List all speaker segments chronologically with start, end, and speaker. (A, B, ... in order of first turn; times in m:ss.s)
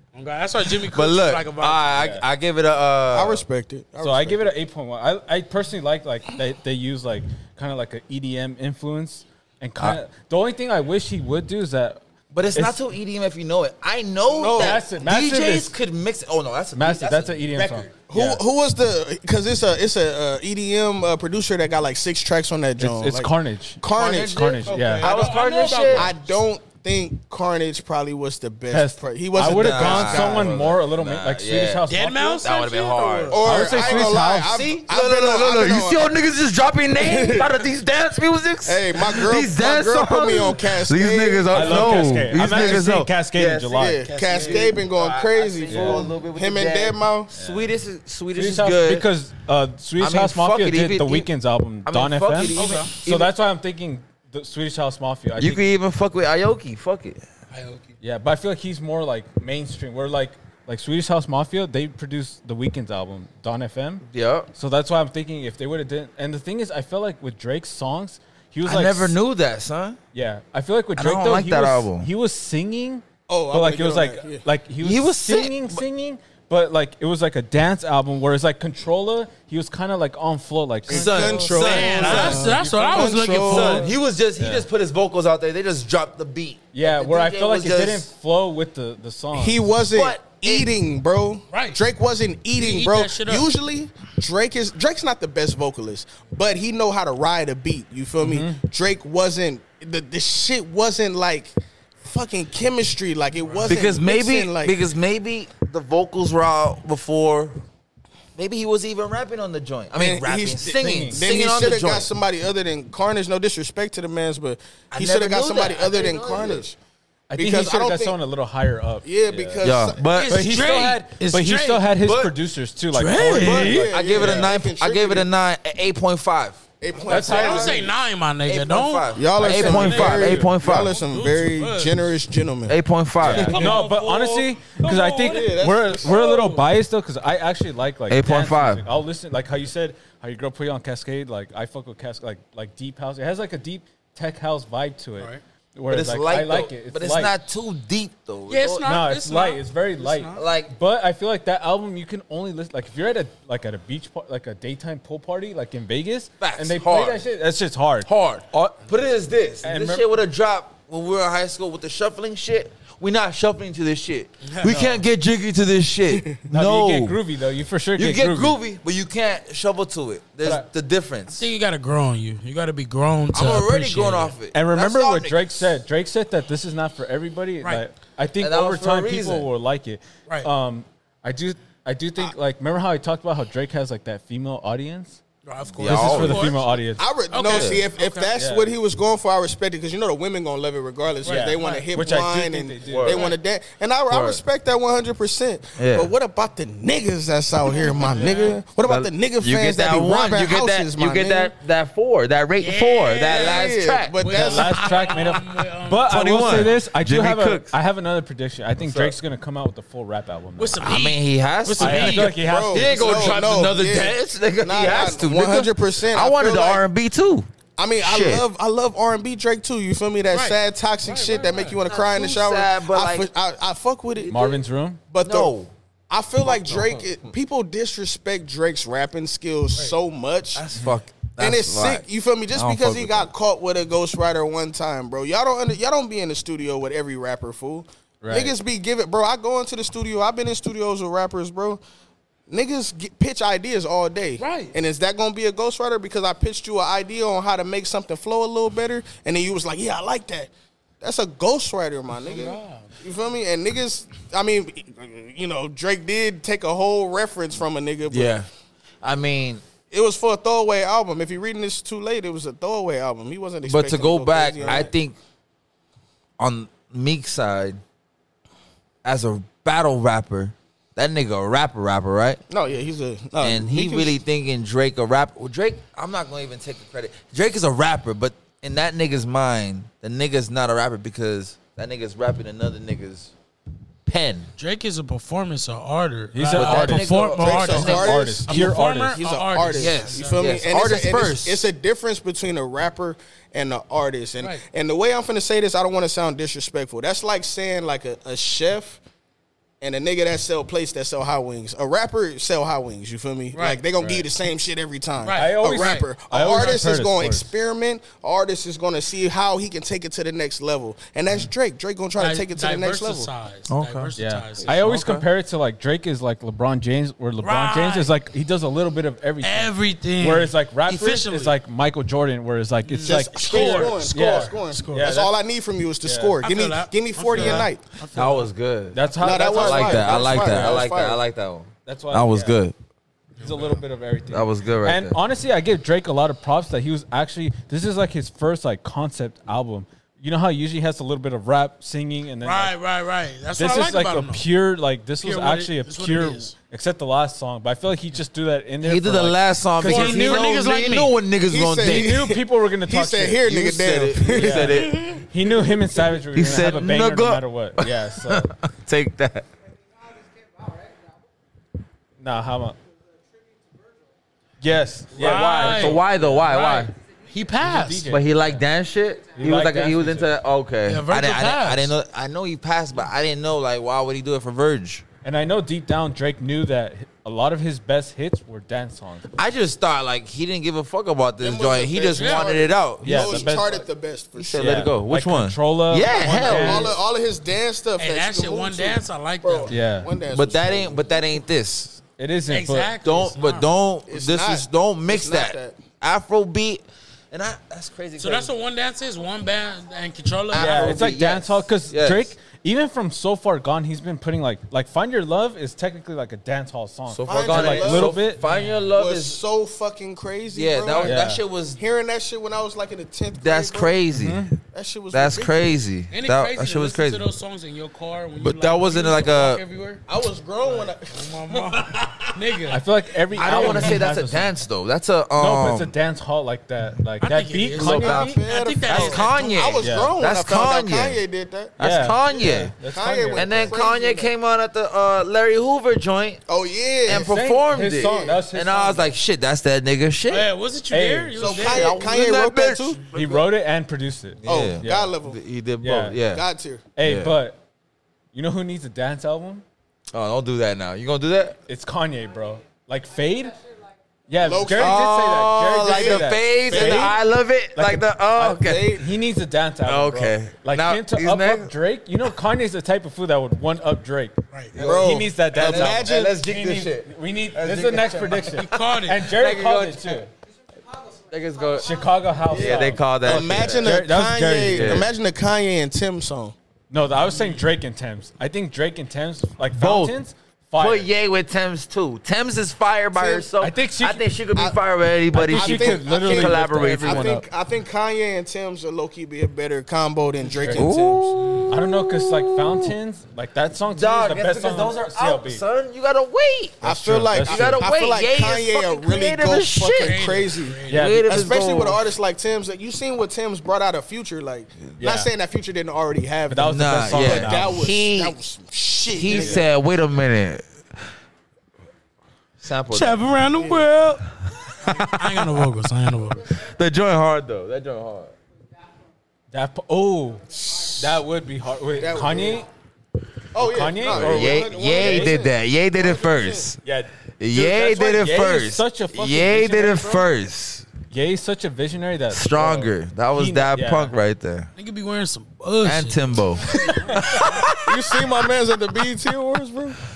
0:00.1-0:01.9 A
0:00.8-0:03.4 B
0:01.9-0:02.2 C
0:03.1-0:04.5 D
0:04.0-0:12.0 C
0:12.3-0:17.7 B
0:14.3-0:14.8 D
0:14.5-0:15.7 C
0:16.7-0:18.4 C
0:17.6-0:24.7 D
0:22.8-0:25.1 C
0:24.0-0:26.1 B
0:24.3-0:26.2 A
0:25.9-0:30.6 D
0:28.7-0:32.4 C
0:29.4-0:31.8 B
0:31.9-0:33.4 A
0:32.4-0:49.0 B
0:33.3-0:36.1 D
0:33.4-0:34.6 C
0:37.0-0:37.6 D
0:38.6-0:42.8 D
0:41.5-0:44.0 C
0:43.7-0:47.3 D
0:44.0-0:44.8 A
0:45.7-0:46.0 C
0:47.3-0:47.7 C
0:48.3-0:55.6 C
0:50.0-0:51.3 B
0:51.8-0:53.3 B
0:52.5-0:52.9 A
0:55.4-0:57.2 B
0:57.5-0:57.9 A
0:58.0-1:09.2 C
1:04.1-1:04.5 B
1:08.6-1:10.0 B
1:10.1-1:24.6 C
1:11.0-1:12.1 B
1:13.3-1:14.4 D
1:14.8-1:15.8 B
1:20.9-1:22.5 B
1:20.9-1:23.9 D
1:21.4-1:23.9 A
1:23.4-1:28.1 B
1:26.7-1:29.6 C
1:29.3-1:44.8 D
1:29.9-1:30.7 B
1:31.5-1:31.8 A
1:32.6-1:33.5 A
1:38.2-1:38.6 C
1:43.4-1:43.8 A
1:43.6-1:47.6 B
1:48.4-1:52.1 B
1:49.9-1:56.8 D
1:50.8-1:51.3 C
1:54.9-1:56.6 B
1:57.3-1:59.6 C
1:57.4-1:58.2 D
1:59.0-2:00.1 D
1:59.6-2:00.6 B
2:00.1-2:01.9 A
2:00.3-2:04.5 C
2:02.0-2:02.3 B
2:02.9-2:03.8 A
2:03.3-2:05.3 D
2:03.4-2:06.6 B
2:06.8-2:07.9 D
2:06.9-2:12.2 A
2:07.1-2:07.8 C
2:07.3-2:07.7 B
2:08.4-2:10.9 B
2:09.1-2:12.8 D
2:09.5-2:10.5 C
2:12.7-2:13.8 B
2:13.2-2:27.3 C
2:13.2-2:14.5 A
2:13.3-2:14.1 D
2:14.8-2:16.6 D
2:16.1-2:16.5 A
2:18.1-2:18.8 B
2:25.9-2:28.9 B
2:28.5-2:30.4 A
2:28.8-2:38.8 C
2:30.3-2:30.7 B
2:36.4-2:37.2 B
2:38.0-2:47.2 B
2:39.6-2:40.1 C
2:44.4-2:44.9 A
2:44.6-2:45.0 C
2:46.1-2:46.4 D
2:46.5-2:48.6 C
2:48.0-2:51.4 B
2:51.3-2:54.3 A
2:53.3-2:55.7 B
2:54.5-3:05.2 C
2:58.4-2:59.5 B
3:05.4-3:06.6 A
3:05.8-3:06.6 B
3:05.8-3:07.0 C
3:07.0-3:21.5 D
3:07.3-3:08.3 A
3:07.4-3:07.8 B
3:08.4-3:08.7 C
3:11.2-3:11.9 A
3:11.2-3:13.3 C
3:12.8-3:13.2 B
3:14.1-3:14.4 B
3:15.8-3:16.1 B
3:17.7-3:18.6 A
3:18.8-3:24.2 B
3:22.6-3:26.8 A
3:23.3-3:24.9 D
3:24.3-3:31.0 C
3:26.0-3:27.8 B
3:28.8-3:29.2 B
3:30.6-3:32.4 A
3:30.8-3:37.5 B
3:31.8-3:33.0 C
3:32.3-3:36.8 D
3:33.2-3:33.4 A
3:37.8-3:44.6 D
3:38.0-3:38.4 B
3:40.3-3:41.8 A
3:41.9-3:43.3 B
3:44.3-3:45.0 C
3:45.1-3:45.5 D
3:45.2-3:45.7 B
3:46.1-3:50.7 D
3:46.5-3:47.1 B
3:50.5-3:53.3 B
3:51.4-4:01.8 D
3:58.2-3:58.5 C
4:02.5-4:18.4 D
4:04.4-4:04.7 A
4:12.2-4:12.9 A
4:18.1-4:18.5 B
4:19.0-4:19.6 B
4:19.9-4:24.9 D
4:23.6-4:25.2 B
4:26.4-4:27.8 B
4:29.0-4:32.4 B
4:32.5-4:34.2 D
4:33.4-4:43.3 B
4:44.0-4:44.5 B
4:44.6-4:50.6 A
4:46.3-4:49.2 C
4:46.5-4:48.6 B
4:47.3-4:59.0 D
4:49.7-4:51.6 B
4:59.8-5:13.3 D
5:03.5-5:03.8 A
5:04.0-5:04.2 C
5:05.2-5:06.0 A
5:05.3-5:07.5 C
5:12.2-5:14.8 A
5:13.7-5:14.1 B
5:14.2-5:25.3 C
5:14.6-5:15.2 B
5:17.4-5:18.1 A
5:19.4-5:21.6 A
5:22.8-5:25.2 A
5:23.0-5:27.8 D
5:26.0-5:26.4 C
5:26.4-5:28.5 A
5:27.4-5:27.6 C
5:28.1-5:32.7 B
5:28.9-5:30.8 C
5:29.2-5:31.2 D
5:31.8-5:32.6 C
5:33.4-5:33.8 A
5:33.4-5:42.8 C
5:34.3-5:35.2 B
5:42.4-5:44.4 A
5:43.6-5:50.5 C
5:45.2-5:46.5 A
5:48.8-5:52.2 B
5:49.8-5:51.1 A
5:51.5-5:55.0 D
5:51.8-5:53.4 C
5:53.4-5:55.2 B
5:54.3-5:58.5 C
5:54.7-5:55.2 A
5:56.3-5:59.5 B
6:02.2-6:02.8 C
6:04.6-6:06.8 C
6:05.1-6:08.1 A
6:05.2-6:06.9 B
6:07.6-6:08.6 C
6:08.0-6:15.0 B
6:09.4-6:10.3 C
6:10.8-6:11.9 A
6:15.2-6:19.3 C
6:19.4-6:23.6 B
6:21.4-6:24.9 D
6:22.1-6:22.6 A
6:23.0-6:23.8 C
6:24.4-6:26.9 B
6:24.5-6:26.9 C
6:26.1-6:31.2 D
6:28.0-6:29.7 A
6:29.7-6:30.1 C
6:30.3-6:32.0 B
6:32.2-6:32.9 C
6:32.5-6:33.7 A
6:33.0-6:38.5 B
6:34.1-6:35.8 D
6:38.2-6:41.1 A
6:40.5-6:42.3 B
6:40.5-6:48.4 C
6:47.1-6:49.4 B
6:47.2-6:48.3 D
6:48.4-6:48.8 A
6:48.9-6:51.2 D
6:50.5-6:51.8 B
6:51.0-6:51.4 C
6:51.8-6:54.0 D
6:53.4-6:54.5 B
6:54.1-6:54.6 C
6:54.7-6:55.7 D
6:55.1-6:57.2 B
6:56.1-7:00.0 A
6:58.4-6:59.6 B
7:00.1-7:02.3 D
7:00.6-7:02.8 A
7:02.7-7:04.5 C
7:03.3-7:05.9 B
7:03.4-7:04.0 A
7:05.4-7:08.4 C
7:07.2-7:09.8 A
7:07.8-7:08.3 B
7:08.0-7:11.8 D
7:08.9-7:11.2 B
7:09.8-7:10.1 C
7:11.8-7:12.7 B
7:11.8-7:13.7 C
7:12.9-7:14.3 D
7:13.3-7:16.4 B
7:16.5-7:17.3 D
7:17.0-7:20.5 B
7:17.1-7:19.1 C
7:18.0-7:18.4 D
7:20.3-7:22.0 A
7:20.9-7:21.4 C
7:21.4-7:23.0 D
7:21.5-7:23.0 B
7:23.1-7:25.1 C
7:24.4-7:26.4 B
7:24.4-7:25.4 D
7:25.8-7:26.2 C
7:26.3-7:26.8 D
7:27.0-7:27.6 C
7:27.0-7:27.3 B
7:28.3-7:29.6 C
7:30.1-7:31.6 B
7:31.7-7:33.6 C
7:34.3-7:37.2 C
7:34.4-7:35.1 D
7:34.8-7:38.9 B
7:35.8-7:37.2 D
7:37.7-7:50.3 C
7:38.4-7:39.0 D
7:39.8-7:41.7 B
7:44.7-7:46.4 D
7:44.7-7:48.6 B
7:48.4-7:49.2 A
7:49.2-7:50.2 B
7:51.3-7:51.9 B
7:51.8-7:55.1 C
7:52.4-7:54.0 B
7:53.2-7:56.5 D
7:54.6-7:55.1 B
7:56.9-8:01.1 C
7:57.2-7:57.7 A
7:59.7-8:00.2 B
8:00.8-8:07.4 B
8:03.1-8:03.5 D
8:03.6-8:04.2 C
8:05.3-8:07.4 C
8:05.5-8:11.4 D
8:10.6-8:10.9 C
8:10.7-8:12.9 B
8:11.4-8:11.6 A
8:11.7-8:15.6 C
8:13.9-8:20.2 B
8:16.8-8:29.6 D
8:16.8-8:17.8 C
8:20.0-8:21.1 A
8:20.9-8:21.5 C
8:20.9-8:22.0 B
8:25.0-8:25.3 C
8:26.5-8:27.8 C
8:26.6-8:28.3 B
8:29.1-8:30.7 B
8:29.3-8:29.6 C
8:32.6-8:33.2 B
8:32.9-8:34.3 A
8:33.6-8:33.9 D
8:34.8-8:36.4 A
8:34.9-8:35.6 B
8:36.5-8:38.4 B
8:39.5-8:42.7 C
8:40.5-8:41.0 D
8:42.0-8:42.6 D
8:43.5-8:46.7 D
8:43.6-8:45.4 C
8:44.0-8:46.8 B
8:46.8-8:50.3 C
8:47.4-8:50.9 B
8:51.1-8:54.1 C
8:52.3-8:54.7 B
8:54.8-8:57.6 A
8:55.8-8:58.3 B
8:57.8-9:00.0 D